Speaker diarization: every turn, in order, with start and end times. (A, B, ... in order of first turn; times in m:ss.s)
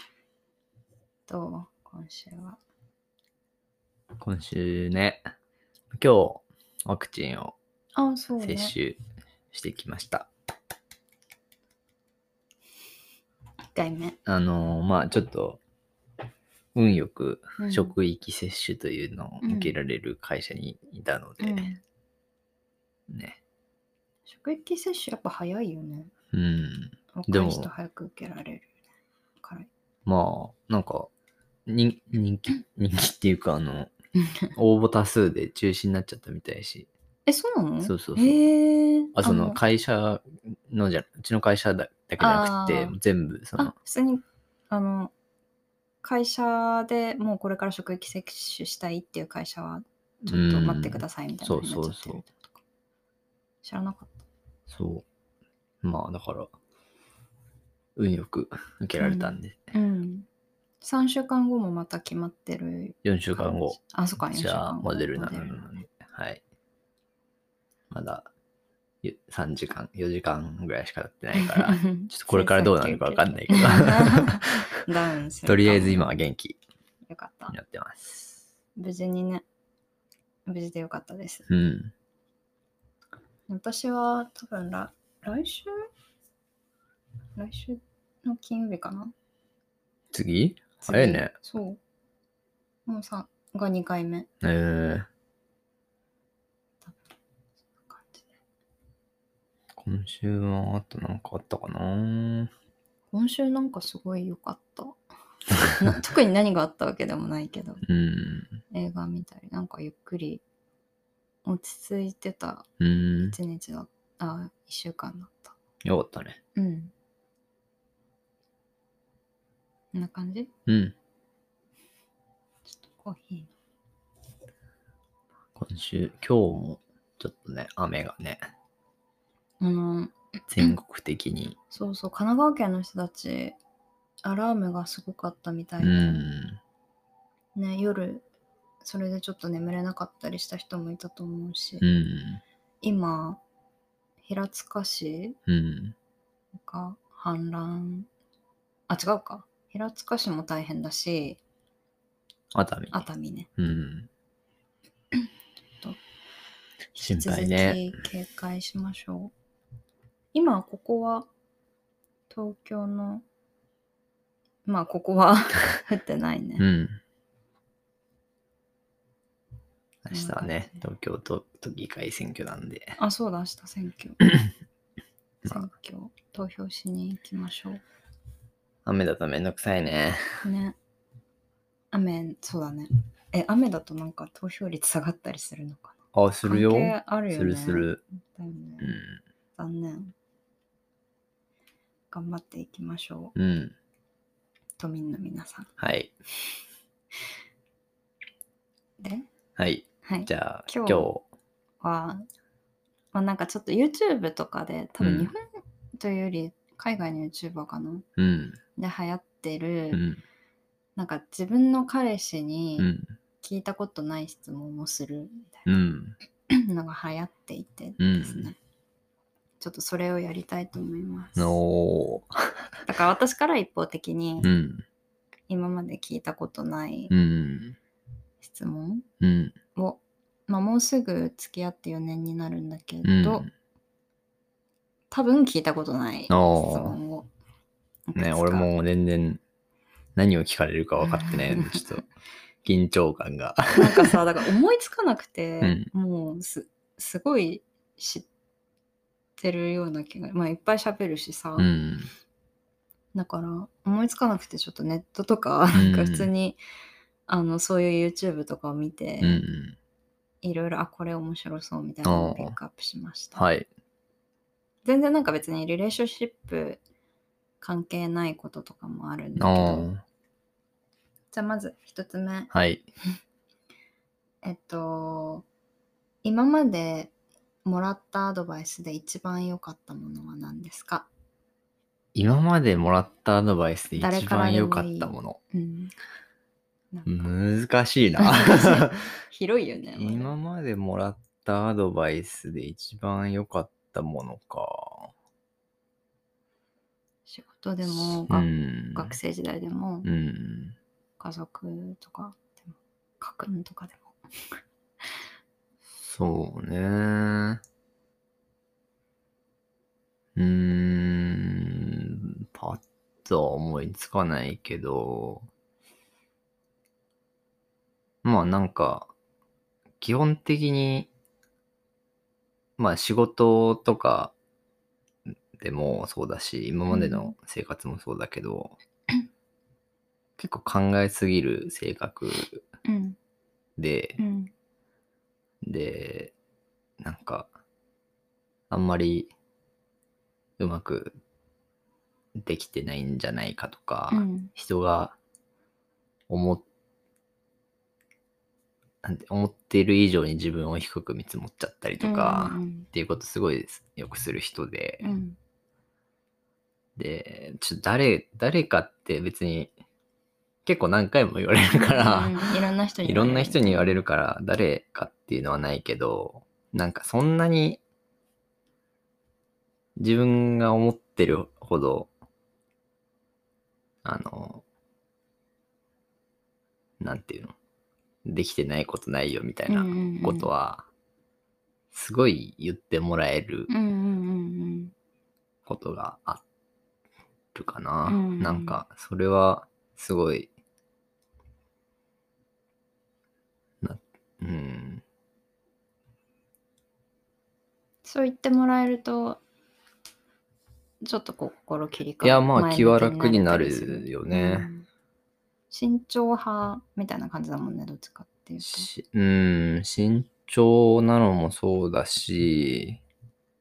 0:01.3-0:02.6 A
0:04.2-0:05.2 B
0:05.9-0:07.6 B
0:08.0-0:08.8 A
0:08.4-0:09.0 B
0:09.5-0:10.3 B
0:13.8-0:14.2 A
0:14.3-0:15.6 B
0:16.7-0:21.7 B
0:17.6-0:17.9 A
0:19.4-0:19.8 A
0:21.4-0:21.8 A
0:23.1-0:23.4 B
0:24.3-0:26.1 A
0:26.3-0:27.7 B
0:27.1-0:28.7 A
0:29.4-0:29.7 A
0:30.1-0:31.1 B
0:31.7-0:33.9 B
0:34.2-0:34.5 A
0:34.6-0:36.9 B
0:37.3-0:39.6 A
0:37.8-0:38.4 B
0:39.1-0:43.7 B
0:42.2-0:43.0 A
0:43.6-0:45.1 A
0:46.0-0:52.5 A
0:50.3-0:52.2 B
0:53.6-0:54.2 A
0:54.7-0:55.1 B
0:55.8-0:56.5 B
0:58.0-0:59.7 B
0:59.0-1:00.3 A
1:00.8-1:05.7 A
1:03.0-1:03.8 B
1:04.3-1:06.4 B
1:07.9-1:08.3 B
1:09.0-1:14.6 B
1:11.3-1:16.1 A
1:15.5-1:16.6 B
1:17.1-1:17.6 A
1:17.5-1:18.4 B
1:18.8-1:19.4 A
1:20.5-1:21.5 A
1:21.5-1:21.9 B
1:23.5-1:25.8 A
1:27.4-1:29.1 A
1:30.1-1:31.3 B
1:30.8-1:31.8 A
1:32.9-1:34.3 A
1:34.4-1:35.1 B
1:37.8-1:38.3 A
1:39.8-1:42.5 B
1:43.1-1:45.0 A
1:45.7-1:47.8 A
1:47.8-1:48.6 B
1:48.7-1:50.4 A
1:51.4-1:52.7 A
1:52.8-1:53.4 B
1:53.3-1:55.6 A
1:55.8-1:56.4 B
1:56.6-1:56.9 A
1:59.9-2:00.5 A
2:00.7-2:01.0 B
2:02.7-2:03.5 A
2:05.6-2:08.4 B
2:09.6-2:10.7 A
2:10.5-2:11.6 B
2:11.7-2:13.6 A
2:14.2-2:16.3 A
2:15.8-2:16.6 B
2:17.6-2:18.3 A
2:18.8-2:21.8 A
2:21.8-2:22.4 B
2:22.8-2:23.4 A
2:24.2-2:25.4 A
2:25.5-2:26.0 B
2:26.6-2:28.1 A
2:28.9-2:31.4 A
2:32.5-2:33.0 B
2:32.9-2:33.5 A
2:33.6-2:34.1 B
2:37.0-2:39.3 A
2:37.0-2:37.9 B
2:40.3-2:41.3 A
2:42.3-2:43.2 A
2:44.6-2:46.6 A
2:46.6-2:47.0 B
2:50.0-2:53.0 B
2:50.1-2:50.8 A
2:53.0-2:54.2 A
2:55.4-2:57.8 A
2:58.8-3:00.4 B
3:00.4-3:00.8 A
3:01.9-3:09.0 A
3:06.1-3:08.0 B
3:08.8-3:09.2 B
3:09.6-3:10.1 A
3:12.1-3:13.4 A
3:13.4-3:13.8 B
3:14.8-3:15.7 A
3:15.8-3:16.2 B
3:19.0-3:19.3 A
3:19.6-3:21.2 B
3:20.0-3:21.1 A
3:21.8-3:22.3 A
3:23.1-3:25.4 A
3:25.0-3:25.3 B
3:26.0-3:28.1 A
3:28.2-3:28.6 B
3:28.8-3:30.1 A
3:29.9-3:30.2 B
3:31.0-3:32.9 A
3:32.8-3:33.1 B
3:33.4-3:35.8 A
3:35.7-3:36.2 B
3:36.5-3:38.6 A
3:38.0-3:38.5 B
3:39.6-3:41.6 A
3:41.4-3:42.6 B
3:42.9-3:44.5 A
3:44.4-3:44.8 B
3:45.5-3:47.1 A
3:47.1-3:47.8 B
3:48.4-3:49.1 A
3:49.2-3:49.6 B
3:49.8-3:53.5 A
3:53.0-3:53.5 B
3:55.1-3:57.3 A
3:56.3-3:57.0 B
3:58.1-3:58.7 A
3:58.2-3:59.4 B
4:00.2-4:02.1 B
4:01.0-4:02.0 A
4:02.6-4:04.2 B
4:03.7-4:08.3 A
4:05.6-4:05.9 B
4:09.4-4:11.7 A
4:11.6-4:12.1 B
4:13.2-4:16.6 A
4:15.7-4:16.3 B
4:17.3-4:19.4 A
4:19.2-4:19.8 B
4:20.4-4:23.4 A
4:22.0-4:22.6 B
4:23.4-4:23.7 B
4:24.8-4:26.8 A
4:27.6-4:29.9 A
4:29.4-4:30.0 B
4:31.3-4:32.5 A
4:32.5-4:32.8 B
4:34.4-4:35.5 A
4:36.2-4:37.1 A
4:37.6-4:41.1 A
4:42.2-4:45.4 B
4:44.0-4:45.9 A
4:46.9-4:47.3 A
4:47.1-4:49.1 B
4:48.2-4:50.3 A
4:50.0-4:55.1 B
4:57.3-5:00.1 A
4:57.9-4:59.2 B
5:00.0-5:00.8 B
5:01.2-5:04.2 A
5:06.0-5:07.6 B
5:10.4-5:15.5 B
5:18.2-5:19.1 B
5:20.0-5:21.1 B
5:22.8-5:24.3 B
5:25.6-5:28.8 B
5:26.9-5:27.3 A
5:30.4-5:32.6 B
5:32.8-5:33.2 A
5:33.8-5:34.2 B
5:34.2-5:34.5 A
5:35.6-5:36.3 B
5:37.0-5:37.5 B
5:38.7-5:39.3 B
5:40.6-5:41.2 B
5:42.4-5:45.2 B
5:44.1-5:44.5 A
5:46.3-5:46.6 B
5:49.0-5:55.2 B
5:52.0-5:52.9 A
5:55.0-5:55.4 A
5:57.0-5:59.7 B
6:00.6-6:02.5 B
6:01.7-6:04.0 A
6:03.0-6:07.8 B
6:10.0-6:12.1 B
6:14.0-6:14.6 B
6:17.0-6:17.6 B
6:18.2-6:20.9 B
6:19.7-6:20.5 A
6:21.9-6:23.7 B
6:23.7-6:24.9 A
6:25.7-6:26.4 B
6:27.5-6:30.5 B
6:28.1-6:28.8 A
6:33.8-6:35.0 B
6:38.0-6:39.4 A
6:41.0-6:44.9 A
6:42.2-6:44.7 B
6:45.7-6:48.9 A
6:48.6-6:53.0 B